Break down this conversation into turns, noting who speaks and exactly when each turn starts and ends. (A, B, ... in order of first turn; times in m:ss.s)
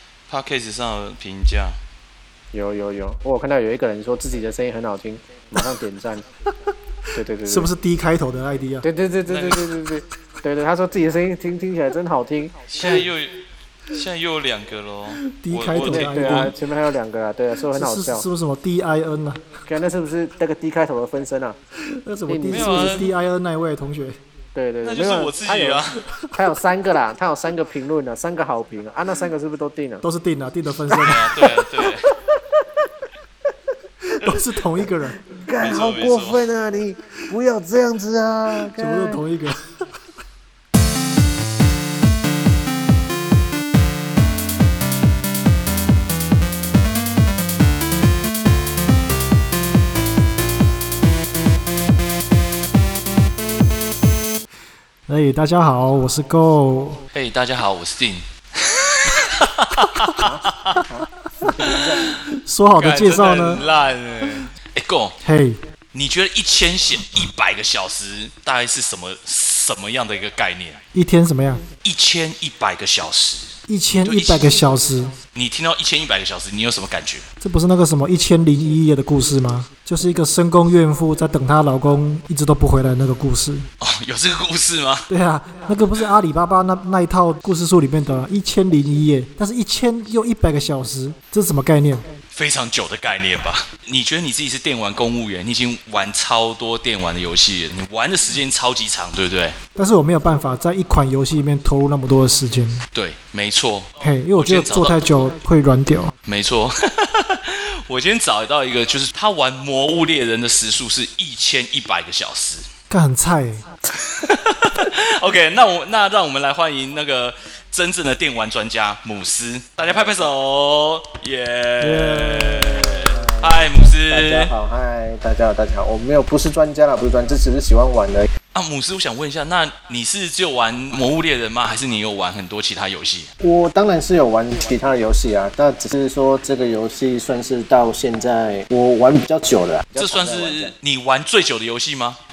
0:00.3-0:01.8 A
0:02.5-0:06.2 B
0:07.2-0:07.7 B
0:07.4-0:08.8 C
0:08.8-0:13.0 B
0:09.2-0:09.7 A
0:12.7-0:13.4 A
0:13.9-0:16.5 A
0:15.4-0:16.6 C
0:15.7-0:18.3 B
0:17.7-0:19.6 C
0:19.7-0:21.6 B
0:21.9-0:24.2 C
0:22.3-0:23.0 B
0:22.5-0:23.1 A
0:24.6-0:30.0 B
0:24.8-0:26.0 A
0:30.0-0:31.4 C
0:30.9-0:32.0 A
0:31.0-0:31.8 B
0:34.2-0:35.2 C
0:34.8-0:39.2 B
0:35.6-0:36.4 A
0:38.5-0:39.8 C
0:55.1-0:57.0 C
0:57.1-1:00.8 A
1:00.2-1:02.1 B
1:02.2-1:03.6 C
1:02.7-1:05.2 A
1:05.2-1:05.6 C
1:05.9-1:10.8 A
1:10.9-1:11.6 C
1:11.8-1:13.5 A
1:13.7-1:15.1 C
1:14.0-1:14.8 A
1:15.3-1:17.2 A
1:17.4-1:23.6 C
1:23.8-1:25.1 A
1:25.1-1:32.0 C
1:32.3-1:39.6 A
1:39.8-1:42.8 C
1:42.9-1:45.1 A
1:44.0-1:46.1 C
1:46.2-1:52.6 A
1:52.9-1:53.6 C
1:54.0-2:04.5 A
1:59.8-2:00.3 B
2:01.8-2:02.8 C
2:03.0-2:08.3 B
2:08.5-2:13.3 A
2:13.4-2:20.8 B
2:20.0-2:22.2 A